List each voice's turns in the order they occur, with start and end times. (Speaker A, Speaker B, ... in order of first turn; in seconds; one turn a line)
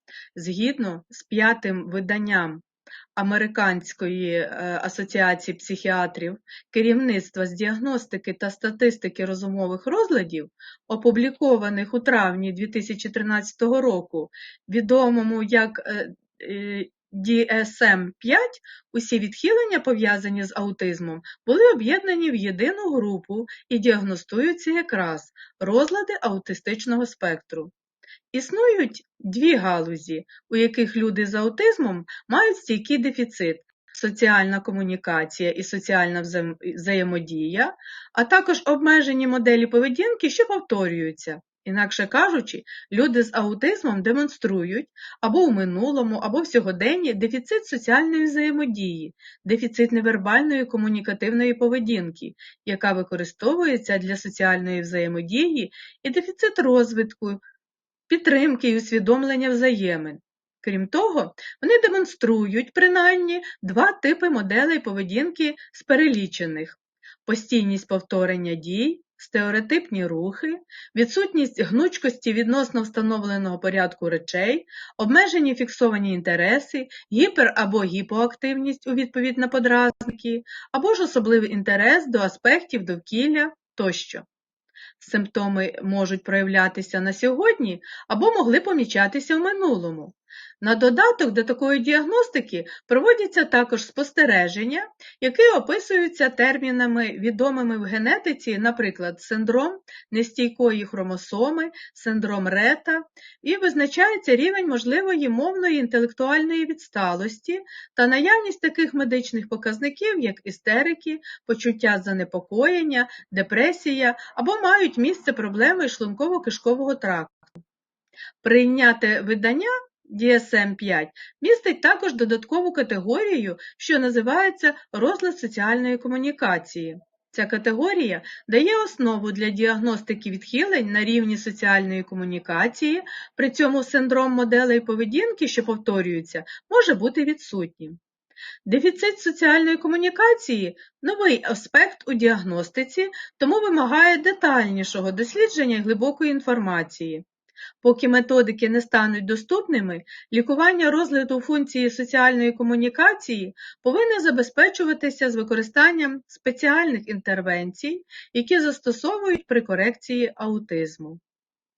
Speaker A: 0.3-2.6
Speaker A: 3.1-27.7
Speaker A: 28.3-57.4
Speaker A: 58.1-84.2
Speaker A: 85.0-117.6
Speaker A: 118.4-138.0
Speaker A: 138.7-147.2
Speaker A: 147.8-161.2